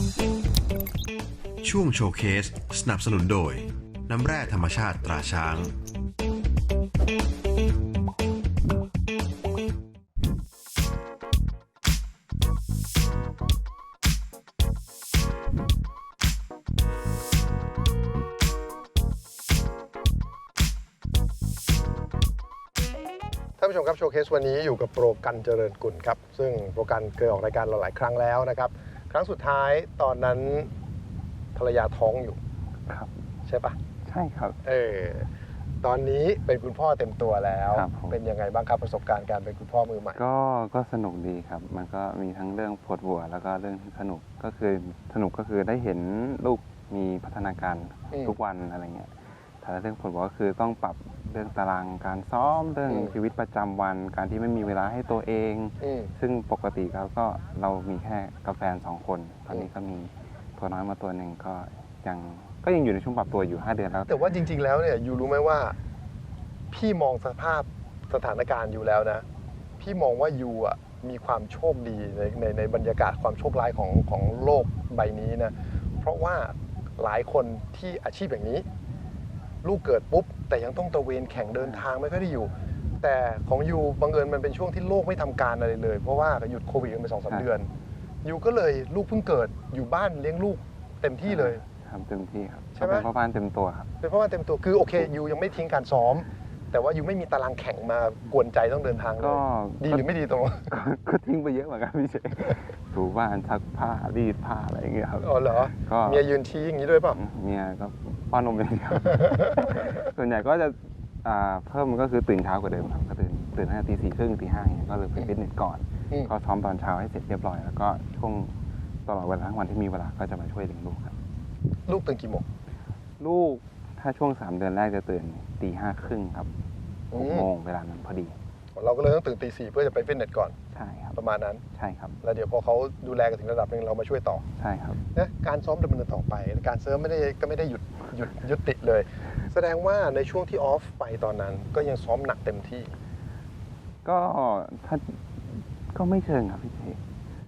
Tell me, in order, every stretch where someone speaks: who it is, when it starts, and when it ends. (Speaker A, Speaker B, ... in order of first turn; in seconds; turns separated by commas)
Speaker A: 1.6-5.8, Speaker B: 23.6-30.7, Speaker B: 31.6-32.4, Speaker C: 32.9-33.1, Speaker B: 33.5-33.8, Speaker C: 34.0-34.6, Speaker B: 34.6-35.3, Speaker B: 35.8-40.2, Speaker C: 37.7-38.2, Speaker C: 40.1-64.4, Speaker B: 52.9-53.1, Speaker B: 55.8-56.1, Speaker B: 64.1-65.8, Speaker B: 66.7-69.2, Speaker B: 69.8-78.7, Speaker B: 79.6-87.7, Speaker B: 88.2-91.6, Speaker C: 91.2-93.9, Speaker B: 92.8-93.1, Speaker B: 94.0-100.7, Speaker C: 99.2-100.1, Speaker C: 100.6-106.2, Speaker B: 105.2-107.2, Speaker C: 107.1-118.5, Speaker B: 109.2-109.5, Speaker C: 119.1-121.2, Speaker B: 121.9-122.5, Speaker C: 123.2-126.5, Speaker B: 127.1-127.5, Speaker C: 127.1-128.4, Speaker B: 128.8-130.6, Speaker C: 130.7-131.2, Speaker B: 131.2-131.6, Speaker C: 131.7-132.2, Speaker B: 132.2-134.4, Speaker C: 134.6-135.0, Speaker B: 135.1-142.9, Speaker C: 144.0-147.0